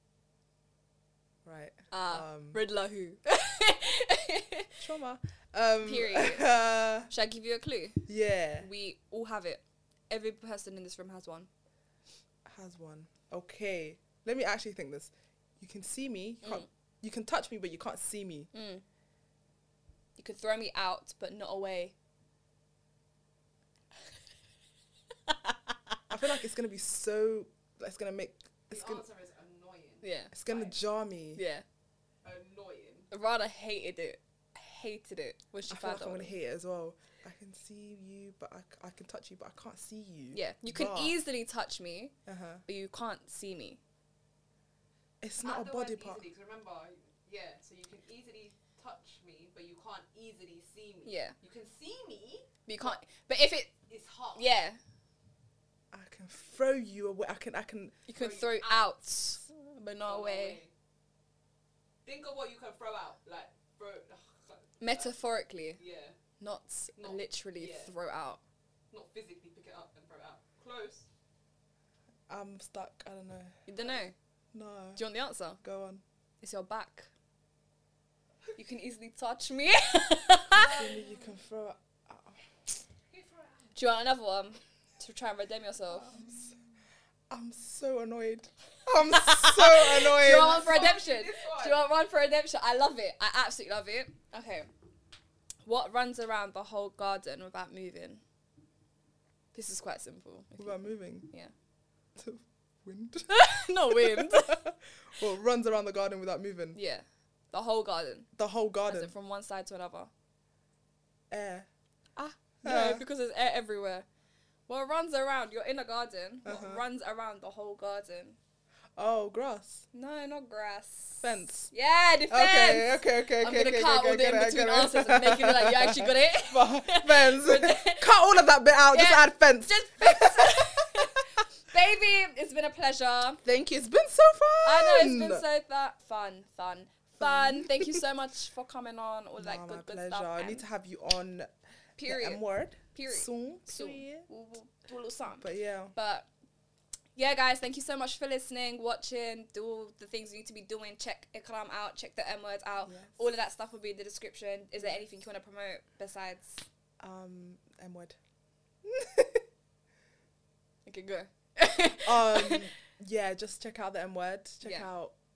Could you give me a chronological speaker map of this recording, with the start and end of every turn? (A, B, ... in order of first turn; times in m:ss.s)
0:01.4-0:02.6 A
0:01.9-0:04.8 B
0:04.8-0:07.1 A
0:05.8-0:06.5 B
0:07.1-0:08.1 B
0:08.1-0:08.7 A
0:08.6-0:11.5 B
0:12.5-0:18.5 A
0:18.5-0:18.8 B
0:20.2-0:21.9 B
0:26.1-0:29.0 A
0:28.7-0:30.8 C
0:30.0-0:30.3 B
0:30.3-0:31.4 A
0:31.4-0:31.6 B
0:32.2-0:33.1 C
0:33.1-0:36.3 B
0:35.7-0:41.2 A
0:40.3-0:42.1 B
0:42.3-0:42.6 A
0:42.7-0:43.8 B
0:45.2-0:46.2 A
0:45.4-0:53.0 C
0:51.0-0:51.4 B
0:52.7-0:53.7 B
0:53.9-0:54.5 C
0:54.4-0:54.8 B
0:55.9-0:58.0 A
0:58.1-1:00.6 B
0:58.2-0:58.9 C
1:00.1-1:00.7 C
1:02.0-1:05.2 C
1:04.8-1:05.8 B
1:05.8-1:06.2 C
1:06.4-1:08.4 B
1:07.0-1:07.9 C
1:08.9-1:11.1 C
1:12.3-1:13.6 A
1:13.7-1:14.1 B
1:14.5-1:15.0 A
1:15.0-1:15.6 B
1:15.6-1:16.0 A
1:16.4-1:17.1 B
1:18.6-1:20.8 B
1:20.5-1:21.4 C
1:20.6-1:22.4 A
1:23.1-1:23.8 C
1:23.8-1:26.2 B
1:25.9-1:26.6 A
1:27.3-1:30.9 A
1:29.0-1:34.7 B
1:30.3-1:31.9 C
1:35.7-1:38.2 B
1:39.5-1:41.5 B
1:40.6-1:41.3 A
1:42.2-1:46.8 A
1:43.3-1:44.6 B
1:46.7-1:48.3 B
1:48.4-1:49.1 A
1:48.9-1:50.1 B
1:51.3-1:51.7 A
1:52.2-1:54.1 B
1:52.6-1:53.0 A
1:54.7-1:58.4 B
1:56.5-1:56.8 A
1:59.0-1:59.8 A
1:59.9-2:08.1 B
2:01.2-2:01.7 A
2:02.3-2:10.8 A
2:08.9-2:13.4 B
2:13.4-2:15.4 A
2:14.6-2:20.6 B
2:17.2-2:18.0 A
2:19.4-2:21.5 A
2:22.0-2:22.4 B
2:22.1-2:24.3 A
2:22.9-2:26.3 B
2:25.4-2:25.9 A
2:27.2-2:36.6 B
2:32.9-2:33.2 A
2:37.0-2:38.2 A
2:38.8-2:39.4 A
2:40.9-2:42.7 B
2:42.0-2:45.1 A
2:44.6-2:44.9 B